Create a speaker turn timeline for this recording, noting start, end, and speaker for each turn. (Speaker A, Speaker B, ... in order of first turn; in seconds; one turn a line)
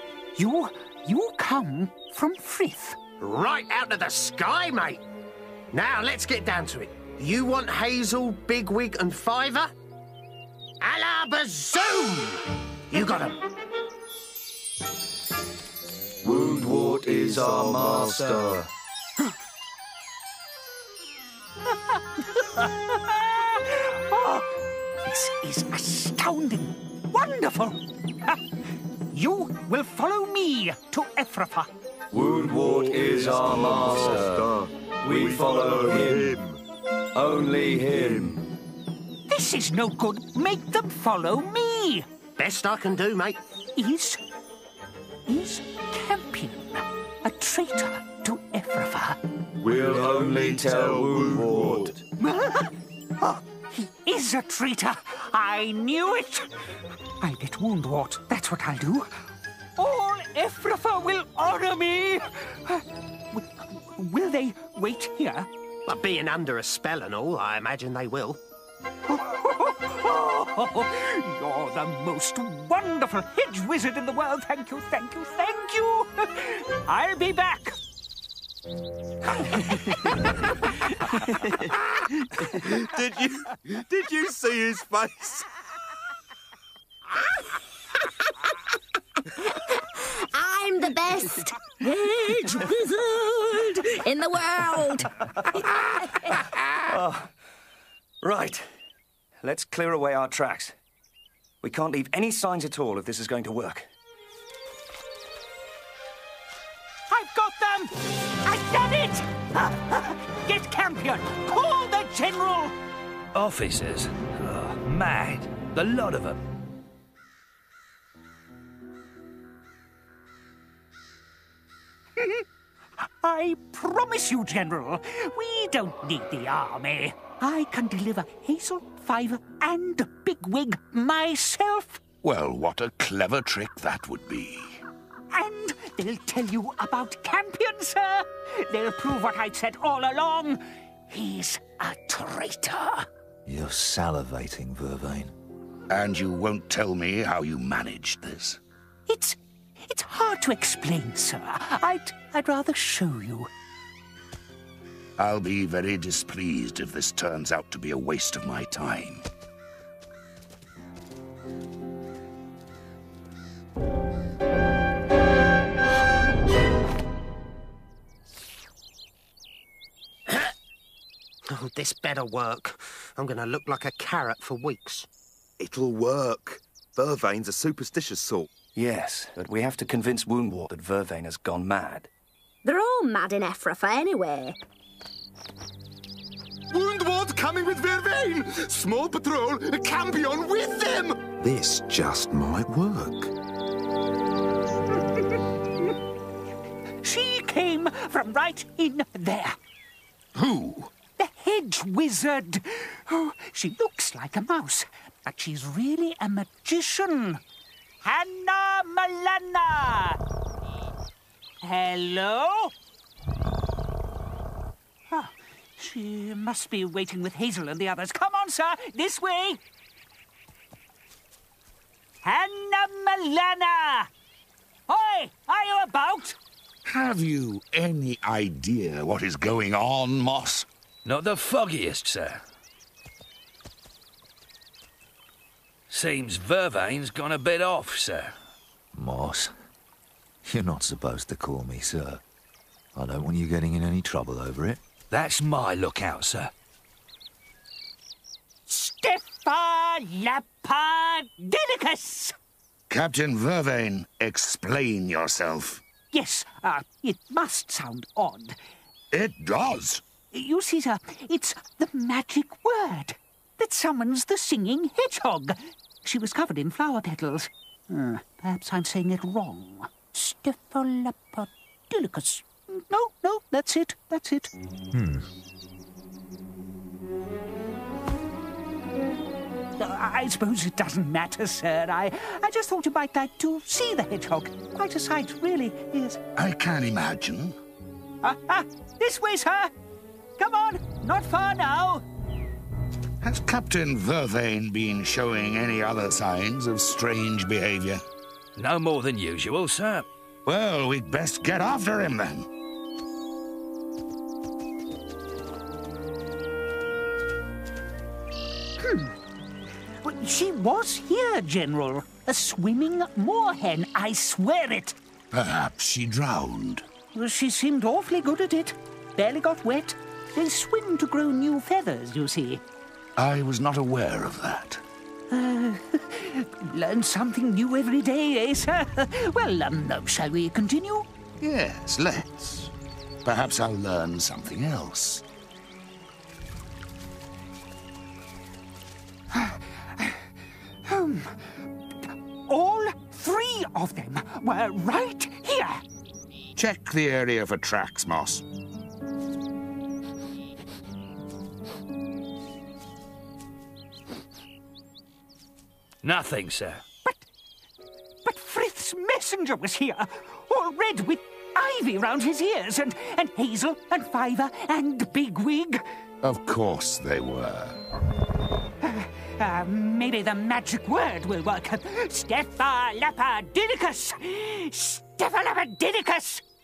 Speaker A: 0.3-3.0
Speaker B: 3.2-5.0
Speaker B: 5.7-9.7
Speaker B: 10.8-13.4
Speaker C: 16.3-18.6
Speaker A: 22.3-24.5
Speaker A: 25.0-28.4
Speaker A: 29.1-31.7
Speaker D: 32.7-36.6
Speaker C: 32.9-34.2
Speaker C: 35.4-35.7
Speaker A: 39.3-42.0
Speaker B: 42.4-43.4
Speaker A: 43.8-44.2
Speaker A: 45.3-49.2
Speaker D: 49.7-51.9
Speaker C: 49.8-51.9
Speaker A: 52.2-56.5
Speaker A: 57.2-59.1
Speaker A: 59.8-65.5
Speaker B: 65.8-68.4
Speaker A: 69.1-77.8
Speaker D: 82.6-85.4
Speaker E: 89.4-95.6
Speaker C: 96.8-97.3
Speaker C: 98.2-98.7
Speaker C: 99.4-100.8
Speaker C: 101.6-103.9
Speaker A: 107.1-112.8
Speaker F: 113.3-116.4
Speaker A: 122.2-122.4
Speaker A: 123.2-132.0
Speaker G: 132.2-134.8
Speaker A: 135.3-143.1
Speaker H: 143.4-145.3
Speaker G: 145.9-148.6
Speaker A: 149.1-153.5
Speaker G: 155.2-159.2
Speaker B: 171.5-175.1
Speaker D: 175.6-178.5
Speaker C: 178.7-182.1
Speaker E: 182.6-184.6
Speaker I: 186.7-191.2
Speaker D: 191.4-193.3
Speaker A: 197.0-199.6
Speaker G: 200.3-200.9
Speaker A: 201.2-207.4
Speaker A: 208.0-210.2
Speaker A: 211.6-212.7
Speaker A: 215.1-219.6
Speaker A: 222.2-224.1
Speaker A: 224.9-226.4
Speaker G: 226.8-230.7
Speaker F: 231.0-232.4
Speaker F: 235.9-238.3
Speaker H: 238.9-239.5
Speaker H: 240.4-242.2
Speaker H: 242.9-244.8
Speaker F: 245.1-246.5
Speaker A: 248.7-252.3
Speaker G: 252.9-255.8
Speaker A: 256.1-258.6
Speaker G: 259.1-260.0
Speaker A: 260.3-274.5
Speaker H: 274.9-275.3
Speaker A: 279.8-286.2
Speaker G: 286.4-287.6
Speaker A: 288.2-289.7
Speaker A: 290.4-292.0
Speaker G: 293.2-298.0
Speaker F: 298.6-300.1
Speaker G: 300.4-302.5
Speaker A: 308.8-309.1
Speaker A: 310.0-315.0
Speaker G: 315.3-316.8
Speaker A: 317.1-322.6
Speaker G: 323.2-324.8
Speaker A: 325.3-331.1
Speaker G: 331.4-332.7
Speaker G: 333.2-335.2
Speaker A: 339.3-340.2
Speaker A: 340.8-341.5
Speaker A: 342.5-345.8
Speaker G: 346.6-348.4
Speaker F: 356.0-356.8
Speaker A: 358.2-365.8
Speaker G: 366.2-367.8
Speaker A: 368.8-376.4